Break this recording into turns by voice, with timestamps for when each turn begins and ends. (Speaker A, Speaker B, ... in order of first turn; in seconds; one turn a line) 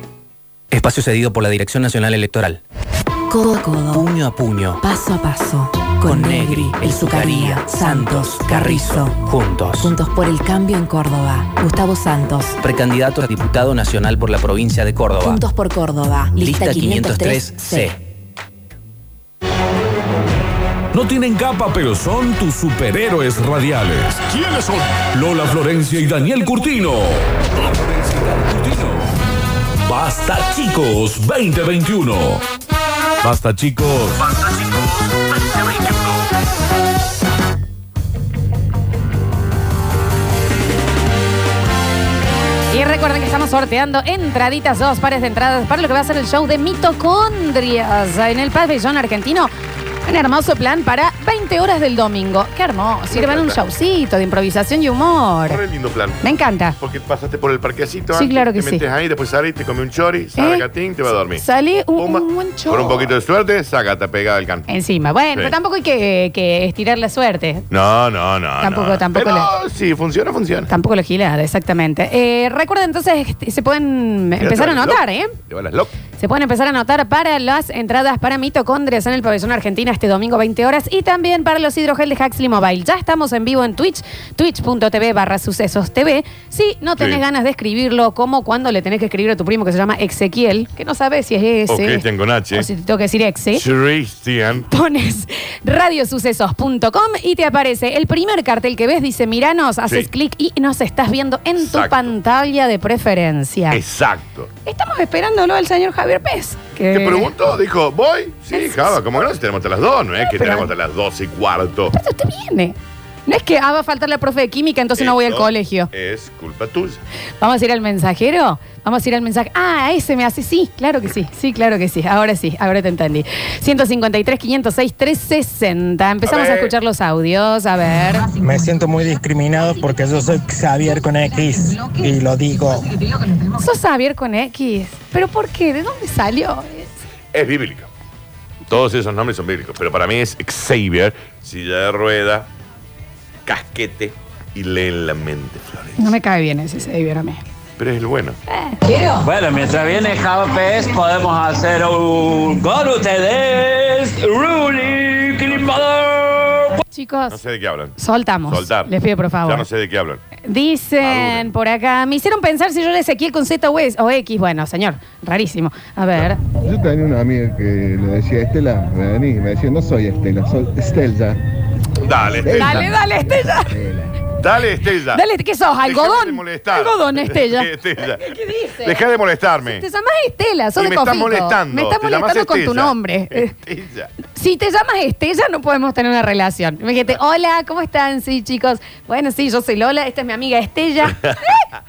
Speaker A: 0.7-2.6
Speaker B: 3.3-4.1
Speaker A: 3.9-4.8
Speaker B: 4.8-12.6
Speaker A: 6.0-9.9
Speaker A: 12.6-15.4
Speaker B: 15.2-17.9
Speaker A: 16.3-18.0
Speaker C: 20.9-29.0
Speaker C: 29.8-32.4
Speaker C: 33.2-34.8
Speaker C: 35.6-35.9
Speaker D: 42.7-49.5
Speaker D: 50.0-55.6
Speaker E: 53.1-53.6
Speaker E: 55.5-56.2
Speaker D: 56.2-56.8
Speaker E: 56.8-61.4
Speaker D: 58.1-58.9
Speaker D: 60.4-60.6
Speaker D: 61.3-63.1
Speaker E: 62.0-64.7
Speaker D: 64.7-67.7
Speaker E: 67.7-70.7
Speaker D: 68.6-69.5
Speaker D: 70.7-75.3
Speaker E: 74.4-75.9
Speaker D: 76.2-93.6
Speaker E: 91.7-92.7
Speaker E: 93.5-94.7
Speaker D: 94.6-103.8
Speaker E: 101.6-102.1
Speaker E: 103.7-104.5
Speaker D: 104.7-107.3
Speaker E: 106.9-111.9
Speaker D: 108.5-109.0
Speaker D: 110.2-110.7
Speaker D: 111.9-112.8
Speaker D: 113.3-115.9
Speaker E: 115.0-117.0
Speaker D: 117.4-128.3
Speaker E: 126.2-126.7
Speaker F: 128.3-132.9
Speaker D: 133.6-136.9
Speaker E: 137.3-137.9
Speaker E: 138.7-142.5
Speaker E: 143.4-146.1
Speaker D: 146.0-147.4
Speaker E: 147.8-148.4
Speaker D: 148.6-149.2
Speaker G: 149.2-156.8
Speaker E: 155.4-155.8
Speaker D: 156.9-157.4
Speaker E: 157.3-157.9
Speaker D: 157.9-159.7
Speaker E: 158.5-158.9
Speaker E: 159.4-160.2
Speaker D: 160.4-166.4
Speaker E: 161.0-161.5
Speaker H: 166.5-171.4
Speaker E: 172.0-172.9
Speaker H: 172.4-174.1
Speaker D: 172.5-173.8
Speaker E: 174.3-175.2
Speaker D: 175.1-179.0
Speaker E: 175.8-179.8
Speaker D: 179.6-183.6
Speaker E: 180.8-184.1
Speaker D: 184.2-191.6
Speaker E: 191.1-191.5